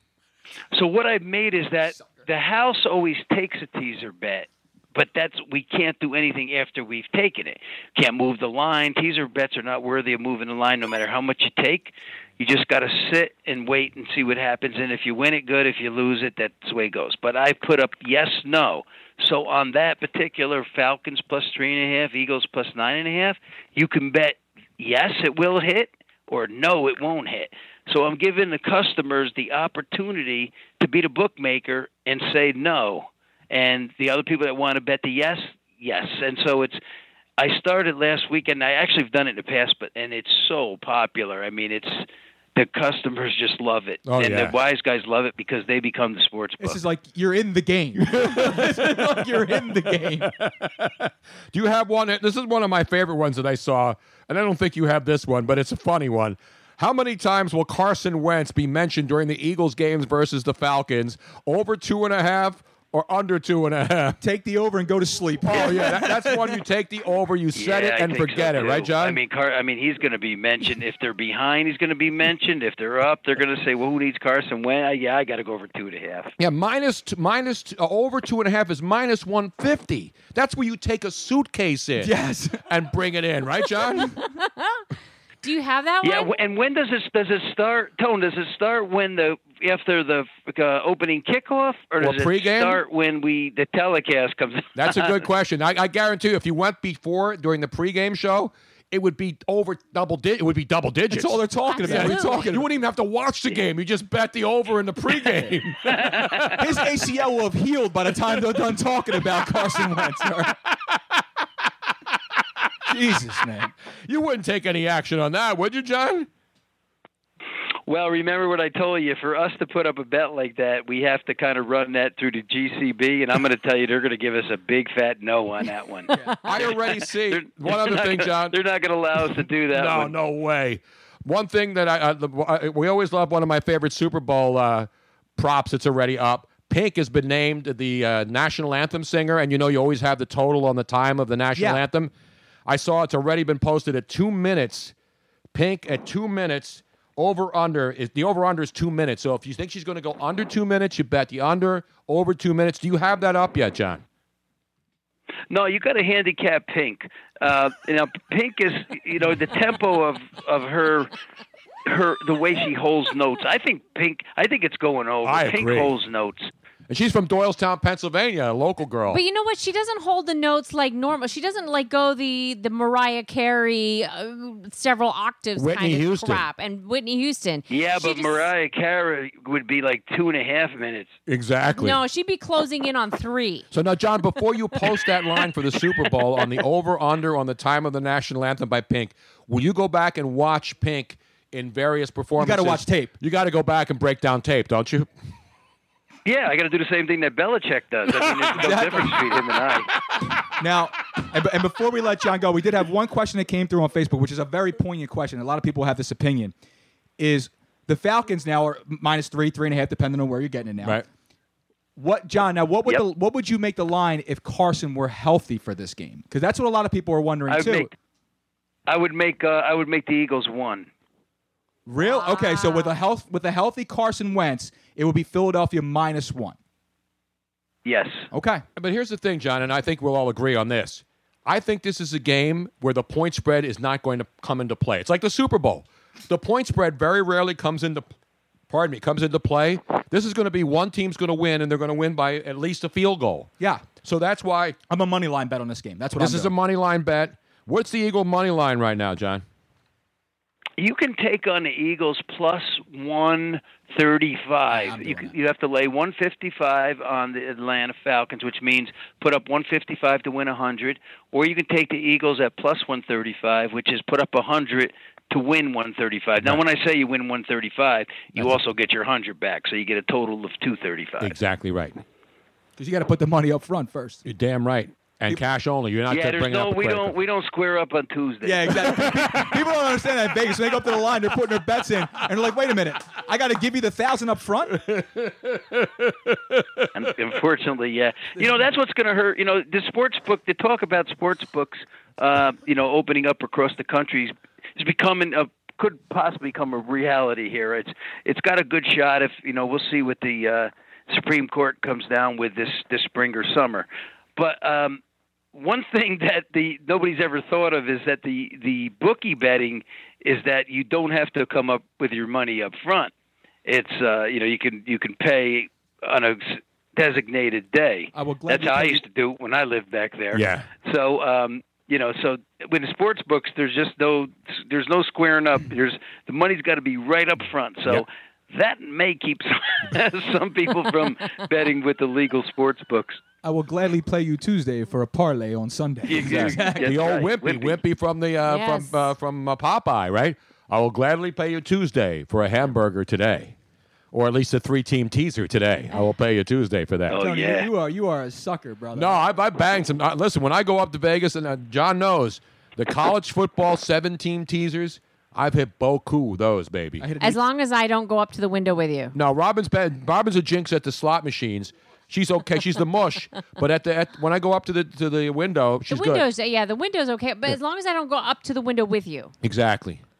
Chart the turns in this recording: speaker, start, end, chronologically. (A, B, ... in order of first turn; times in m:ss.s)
0:00.7-0:36.8 A
0:37.4-0:46.8 A
0:44.0-0:44.5 B
0:46.6-0:50.3 C
0:48.1-1:04.2 B
1:04.2-1:06.6 C
1:05.4-1:09.2 B
1:07.5-1:16.3 A
1:16.4-1:22.1 B
1:22.0-1:22.6 C
1:22.7-1:24.1 B
1:24.2-1:24.8 D
1:25.4-1:26.3 D
1:26.0-1:35.2 A
1:32.0-1:32.8 B
1:34.8-1:46.8 B
1:41.1-1:42.6 C
1:41.7-1:42.4 D
1:45.9-1:46.5 A
1:46.6-1:50.5 C
1:52.9-1:53.7 C
1:54.0-1:56.3 B
1:57.9-2:10.1 A
2:06.4-2:08.6 B
2:09.2-2:22.1 B
2:21.6-2:21.8 C
2:22.6-2:24.9 B
2:25.5-2:34.0 B
2:35.5-2:41.1 A
2:41.8-2:46.5 A
2:45.2-2:45.9 B
2:46.9-2:49.2 B
2:49.1-2:58.5 D
2:55.6-2:56.4 B
2:57.7-3:01.2 A
3:01.3-3:02.0 B
3:01.7-3:03.7 D
3:03.7-3:15.1 B
3:12.4-3:13.1 C
3:16.2-3:19.9 A
3:18.3-3:18.6 B
3:18.6-3:19.2 C
3:20.6-3:26.5 C
3:27.2-3:31.0 C
3:32.0-3:37.9 C
3:37.5-3:37.9 A
3:38.9-3:40.9 A
3:41.8-3:46.6 C
3:42.0-3:43.0 D
3:47.8-3:48.3 A
3:48.3-3:48.6 C
3:48.8-3:58.1 B
3:58.7-4:03.5 B
4:03.6-4:03.9 C
4:04.0-4:04.8 B
4:04.9-4:06.5 C
4:06.2-4:09.4 B
4:10.8-4:31.4 A
4:14.7-4:15.3 C
4:31.2-4:32.0 B
4:32.8-4:34.2 C
4:34.2-4:37.1 B
4:36.1-4:38.7 A
4:38.4-4:44.8 C
4:38.7-4:39.5 B
4:44.8-4:46.8 B
4:47.0-5:05.0 A
5:05.5-5:13.1 A
5:13.6-5:33.2 A
5:18.1-5:19.0 C
5:20.3-5:20.7 B
5:33.4-5:37.0 C
5:36.0-5:37.8 A
5:36.2-5:43.5 B
5:38.4-5:39.0 D
5:44.1-5:47.2 B
5:47.1-5:47.7 A
5:47.1-5:49.2 C
5:48.9-5:57.0 B
5:57.0-5:57.4 C
5:57.2-5:59.1 D
5:59.1-6:06.2 B
6:05.9-6:09.3 D
6:09.4-6:10.0 B